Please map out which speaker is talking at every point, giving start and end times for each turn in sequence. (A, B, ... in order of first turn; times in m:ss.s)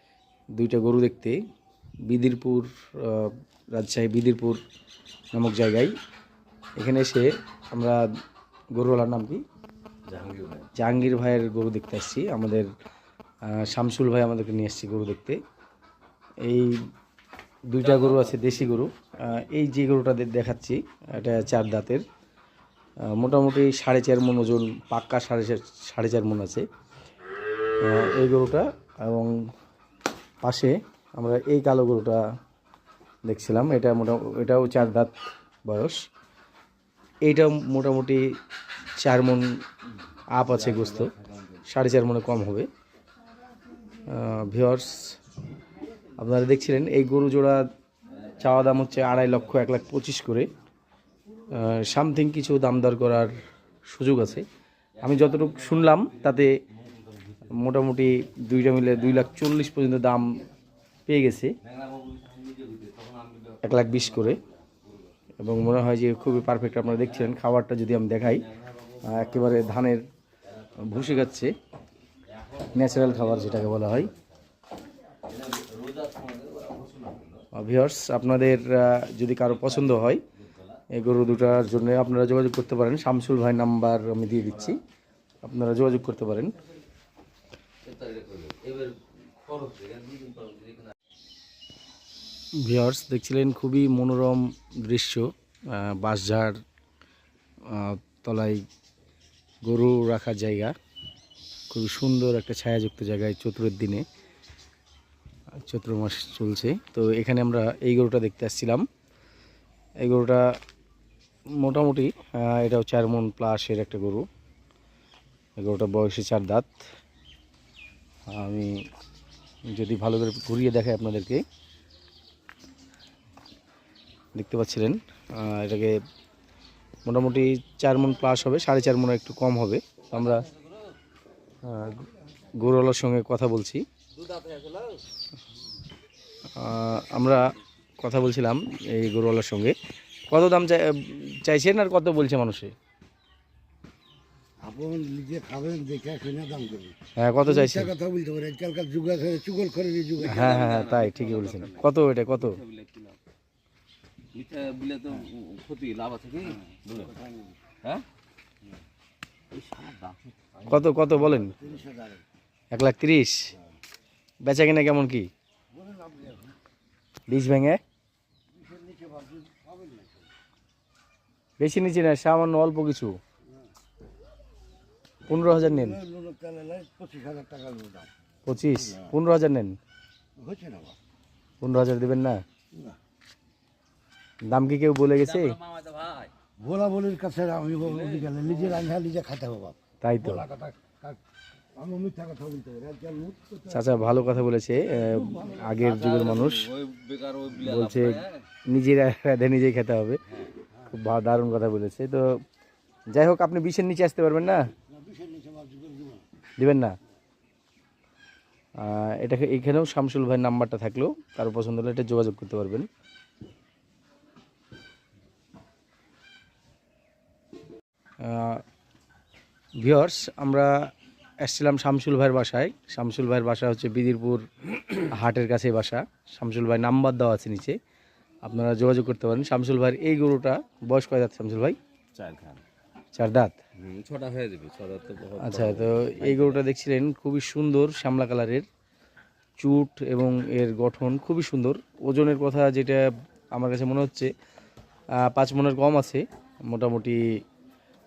0:00.5-0:01.4 A
0:02.0-0:04.6 A
0:05.3-0:05.9 A
0:06.8-0:08.0 A
0:08.8-0:09.4 A
0:10.1-0:10.7 B
0:10.8-0:12.7 A
0:13.5-0:15.4 A
0:16.4-0:16.8 A
0:17.7-0:22.0 A
0:17.8-0:18.5 B
0:23.1-0:26.6 A
0:27.8-0:29.4 A
0:30.4-0:32.2 A
0:33.2-0:35.1 A
0:35.7-0:36.0 A
0:37.2-0:38.2 A
0:39.0-0:39.6 A
0:40.3-0:41.1 A
0:40.7-0:41.1 B
0:41.7-0:42.7 A
0:44.1-0:45.2 A
0:46.2-0:47.6 A
0:48.4-0:50.5 A
0:51.5-0:53.3 A
0:53.9-0:54.5 A
0:55.0-0:56.6 A
0:55.0-0:56.2 B
0:57.4-1:00.4 A
1:01.1-1:01.5 A
1:01.6-1:05.1 B
1:03.6-1:04.4 A
1:05.4-1:08.5 A
1:08.8-1:09.5 B
1:09.0-1:10.0 A
1:10.8-1:11.5 A
1:12.4-1:14.1 B
1:12.7-1:14.1 A
1:15.2-1:17.4 B
1:17.5-1:20.2 A
1:20.9-1:24.8 A
1:25.4-1:26.6 A
1:27.8-1:30.9 B
1:32.6-1:36.6 A
1:37.7-1:38.6 A
1:39.7-1:40.7 A
1:41.7-1:44.0 A
1:45.6-1:48.8 A
1:50.0-1:50.4 A
1:51.6-1:54.3 A
1:55.6-1:56.8 A
1:58.3-1:58.8 A
1:59.7-2:01.4 A
2:04.4-2:06.0 A
2:07.0-2:10.5 A
2:10.2-2:10.6 B
2:11.6-2:12.1 A
2:12.6-2:13.8 A
2:14.2-2:15.0 B
2:16.6-2:17.4 A
2:18.0-2:19.8 A
2:20.3-2:22.7 A
2:24.6-2:30.4 C
2:27.2-2:27.9 A
2:30.2-2:33.2 B
2:30.2-2:32.6 A
2:34.3-2:37.2 B
2:39.5-2:40.8 B
2:40.6-2:41.6 A
2:41.6-2:41.8 B
2:41.7-2:42.2 C
2:42.7-2:43.4 A
2:44.4-2:45.3 A
2:45.7-2:46.5 C
2:47.3-2:47.8 A
2:48.5-2:50.2 C
2:51.6-2:53.2 A
2:55.3-2:56.0 A
2:55.5-2:58.1 C
2:58.5-2:59.8 A
3:00.4-3:01.0 C
3:01.6-3:02.4 A
3:04.5-3:05.6 A
3:05.2-3:06.3 B
3:06.6-3:11.2 C
3:07.8-3:08.8 B
3:10.0-3:10.5 A
3:11.8-3:13.8 C
3:13.7-3:16.7 A
3:15.8-3:18.4 B
3:17.6-3:20.2 A
3:20.9-3:22.3 A
3:23.1-3:24.6 A
3:24.9-3:26.3 C
3:26.6-3:26.9 A
3:28.8-3:32.9 A
3:38.2-3:38.6 A
3:39.8-3:40.9 A
3:41.4-3:47.8 A
3:48.4-3:51.8 A
3:52.2-3:52.6 B
3:53.2-3:53.6 A
3:53.8-3:56.6 B
3:55.4-3:58.7 A
3:59.6-4:04.3 A
4:05.2-4:07.2 A